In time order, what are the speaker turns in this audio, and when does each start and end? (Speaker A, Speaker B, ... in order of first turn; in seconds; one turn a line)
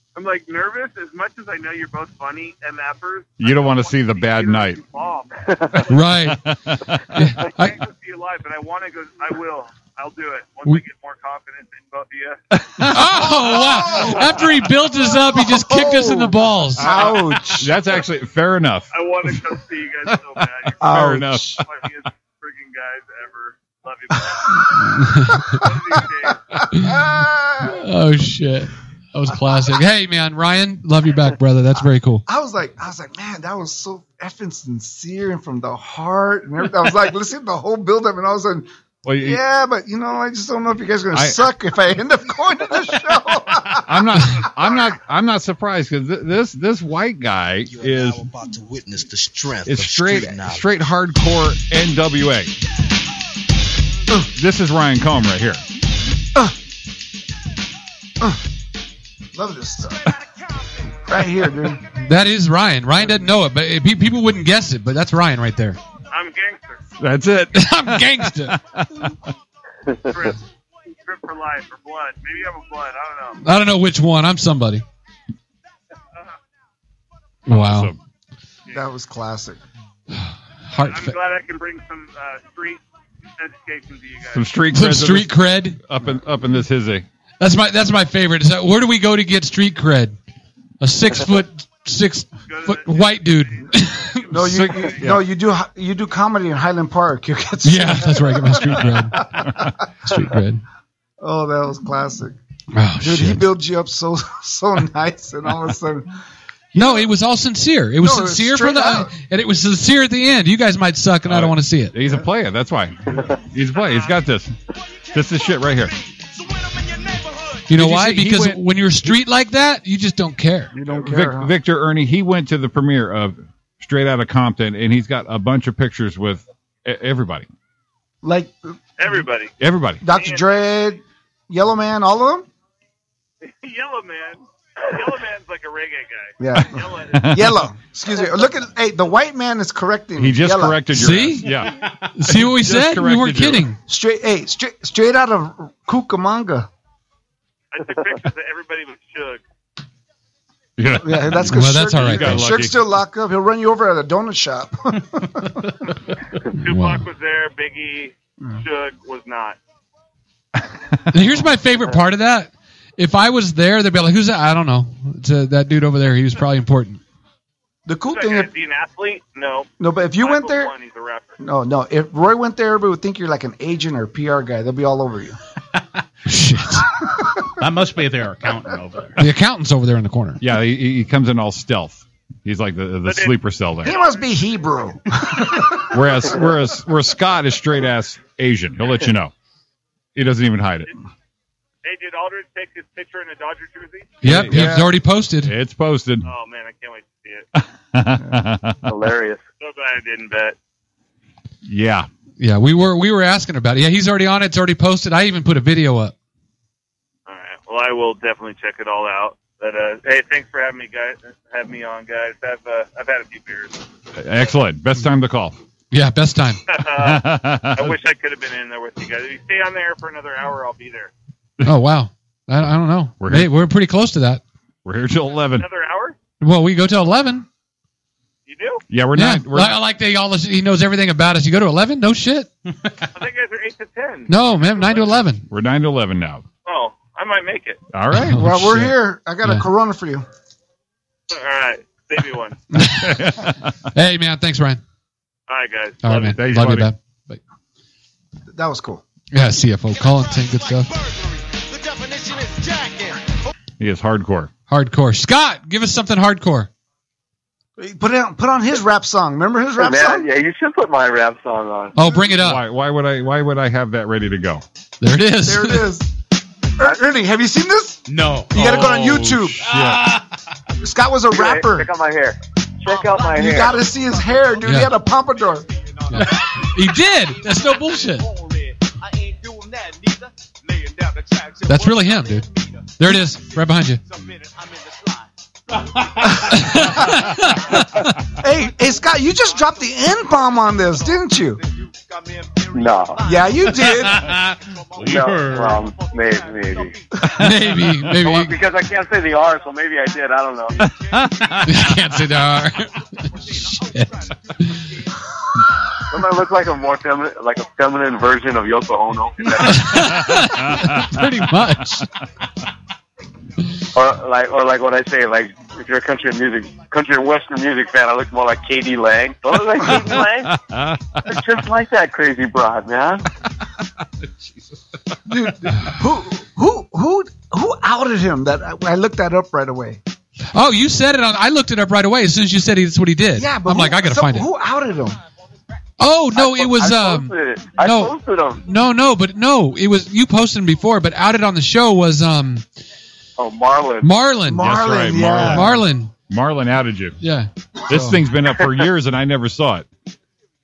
Speaker A: 0.1-6.1
Speaker B: 3.4-4.8
Speaker C: 5.9-6.4
Speaker B: 6.2-7.0
Speaker C: 7.1-7.8
Speaker A: 7.4-12.4
Speaker C: 12.5-17.1
Speaker D: 13.1-14.4
Speaker D: 15.2-17.8
Speaker B: 16.8-19.4
Speaker A: 18.9-24.7
Speaker D: 20.8-21.6
Speaker B: 20.8-21.7
Speaker C: 24.8-25.6
Speaker A: 25.5-26.6
Speaker D: 26.6-27.8
Speaker C: 26.7-27.0
Speaker C: 27.6-32.2
Speaker D: 32.3-44.5
Speaker B: 39.0-39.4
Speaker B: 41.1-41.4
Speaker B: 43.8-48.3
Speaker B: 49.6-52.5
Speaker B: 54.4-55.6
Speaker D: 59.3-60.0
Speaker D: 61.0-61.8
Speaker C: 62.0-65.8
Speaker A: 66.1-66.8
Speaker B: 67.0-69.1
Speaker C: 67.5-68.6
Speaker A: 70.1-70.4
Speaker A: 71.0-73.4
Speaker C: 73.4-74.8
Speaker C: 77.5-77.9
Speaker B: 77.5-78.0
Speaker D: 78.7-79.6
Speaker C: 80.1-81.2
Speaker A: 80.8-82.8
Speaker A: 83.4-84.5
Speaker B: 84.3-87.0
Speaker C: 84.7-85.8
Speaker C: 87.4-90.2
Speaker C: 90.8-94.7
Speaker A: 92.5-95.0
Speaker D: 94.3-99.5
Speaker B: 94.3-95.2
Speaker C: 97.6-99.3
Speaker C: 100.0-100.6
Speaker D: 101.2-102.4
Speaker C: 102.7-103.5
Speaker D: 103.0-106.1
Speaker D: 106.7-107.1
Speaker C: 106.8-111.9
Speaker D: 108.0-109.1
Speaker B: 111.2-114.5
Speaker A: 113.7-114.1
Speaker B: 115.1-115.9
Speaker E: 116.5-117.6
Speaker C: 117.7-120.7
Speaker B: 117.7-118.6
Speaker D: 120.7-121.5
Speaker B: 121.0-127.5
Speaker D: 128.2-128.8
Speaker A: 129.0-129.5
Speaker B: 129.6-130.0
Speaker D: 130.0-132.5
Speaker A: 130.0-130.6
Speaker A: 133.4-137.4
Speaker D: 136.4-140.8
Speaker B: 137.1-137.6
Speaker B: 140.2-143.7
Speaker C: 140.9-143.8
Speaker D: 143.9-146.7
Speaker A: 147.7-149.4
Speaker B: 150.8-152.8
Speaker D: 150.9-155.7
Speaker C: 151.5-152.5
Speaker A: 156.4-159.6
Speaker C: 156.6-157.1
Speaker C: 161.1-167.0
Speaker D: 167.8-168.5
Speaker A: 168.1-171.3
Speaker D: 169.8-170.7
Speaker D: 171.4-175.4
Speaker C: 176.2-176.9
Speaker F: 177.6-179.2
Speaker C: 179.2-180.4
Speaker B: 180.4-184.0
Speaker A: 183.0-184.2
Speaker D: 183.8-186.0
Speaker B: 185.9-189.3
Speaker B: 190.1-190.9
Speaker A: 191.8-194.1
Speaker C: 194.2-195.5
Speaker B: 194.2-196.3
Speaker A: 196.2-197.4
Speaker B: 197.6-198.9
Speaker G: 198.8-199.4
Speaker A: 199.6-200.6
Speaker B: 201.6-202.1
Speaker C: 202.4-206.1
Speaker A: 207.3-213.8
Speaker B: 214.2-215.6
Speaker C: 215.9-216.6
Speaker A: 216.7-221.1
Speaker B: 216.9-218.0
Speaker C: 221.6-224.4
Speaker B: 223.2-223.5
Speaker B: 224.8-225.7
Speaker A: 225.6-226.2
Speaker C: 226.4-227.4
Speaker A: 228.5-228.8
Speaker B: 228.9-229.8
Speaker C: 229.1-232.5
Speaker A: 233.1-235.1
Speaker C: 234.3-235.4
Speaker B: 234.8-236.4
Speaker A: 236.7-237.8
Speaker B: 237.9-238.8
Speaker C: 238.2-238.9
Speaker D: 238.3-240.2
Speaker A: 241.3-242.6
Speaker C: 242.8-243.3
Speaker B: 242.8-243.7
Speaker C: 243.9-244.8
Speaker A: 245.5-246.3
Speaker C: 246.0-247.4
Speaker B: 246.0-246.9
Speaker D: 248.5-249.0
Speaker C: 249.3-250.9
Speaker E: 250.0-253.3
Speaker B: 253.8-254.5
Speaker C: 254.7-256.7
Speaker D: 257.8-260.3
Speaker G: 259.8-261.9
Speaker C: 261.9-262.6
Speaker B: 262.3-264.6
Speaker C: 265.0-265.9
Speaker D: 265.4-266.1
Speaker D: 266.8-269.6
Speaker F: 268.1-269.1
Speaker B: 268.5-270.2
Speaker F: 269.7-270.2
Speaker D: 270.8-271.9
Speaker G: 271.3-273.8
Speaker E: 272.9-299.5
Speaker D: 273.4-275.6
Speaker C: 274.6-274.9
Speaker C: 276.1-278.2
Speaker C: 281.7-282.4
Speaker C: 283.0-284.0
Speaker D: 286.3-286.5
Speaker C: 286.5-288.1
Speaker D: 288.4-291.6
Speaker G: 292.7-293.2
Speaker D: 293.2-294.3
Speaker F: 293.9-295.8
Speaker G: 295.0-296.9
Speaker C: 297.4-298.6
Speaker G: 298.2-300.8
Speaker E: 300.1-305.6
Speaker B: 300.8-301.7
Speaker C: 301.6-303.0
Speaker C: 303.7-304.8
Speaker G: 306.1-310.2
Speaker C: 309.6-312.1
Speaker E: 309.9-310.5
Speaker B: 310.6-311.1
Speaker G: 313.9-320.6
Speaker B: 319.9-321.2
Speaker G: 321.2-323.2
Speaker D: 325.2-330.0
Speaker C: 330.5-334.5
Speaker D: 333.3-335.2
Speaker C: 336.0-342.6
Speaker G: 336.3-338.6
Speaker G: 343.4-344.1
Speaker C: 344.0-344.7
Speaker D: 344.4-345.8
Speaker B: 344.6-347.2
Speaker C: 345.4-346.1
Speaker C: 347.2-347.5
Speaker B: 347.9-349.9
Speaker D: 347.9-348.2